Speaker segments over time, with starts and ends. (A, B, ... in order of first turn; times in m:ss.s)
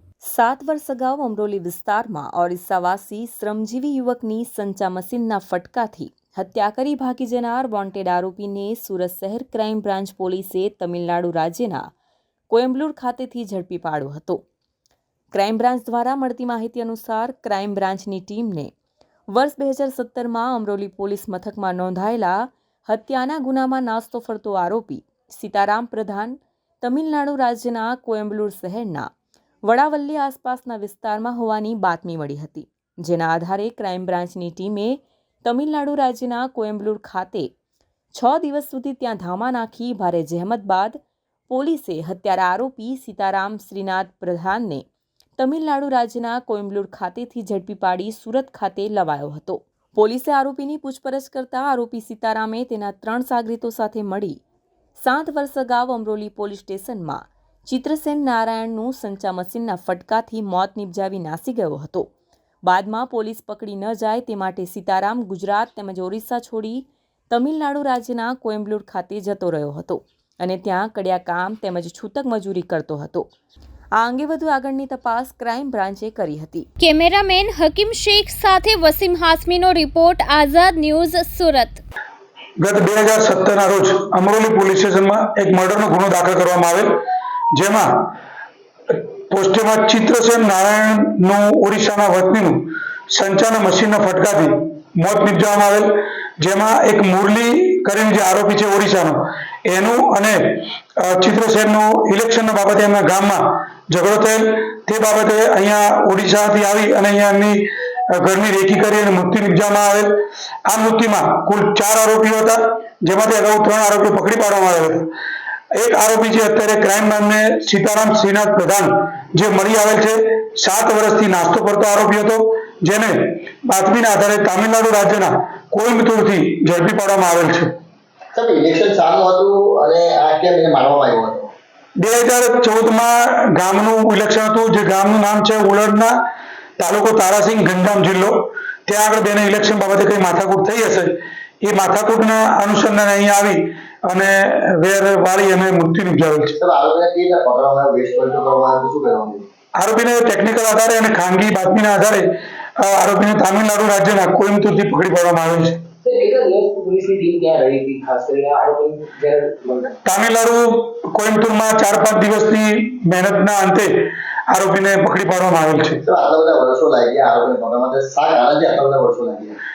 0:00.3-0:11.9 A
0:12.5-0:14.4 A
0:15.3-0:18.7 A
0:19.3-0:29.1 A
0:29.6-0:37.5 A
0:38.1-0:44.8 A
0:45.4-0:54.4 A
0:55.0-1:02.1 A
1:02.6-1:13.3 A
1:14.0-1:16.7 A
1:16.8-1:21.8 B
1:22.6-1:26.9 C
1:27.5-1:28.1 C
1:28.9-1:35.9 C
1:36.4-1:47.6 C
1:48.1-1:50.1 C
1:50.7-1:55.0 C
1:55.7-2:07.7 C
2:08.3-2:11.5 D
2:12.0-2:16.1 C
2:16.8-2:18.3 C
2:18.9-2:21.1 C
2:21.6-2:26.6 C
2:26.6-2:29.4 D
2:29.8-2:32.2 C
2:32.8-2:35.8 C
2:36.0-2:40.0 E
2:40.0-2:43.9 C
2:44.5-2:46.0 C
2:46.0-2:49.6 D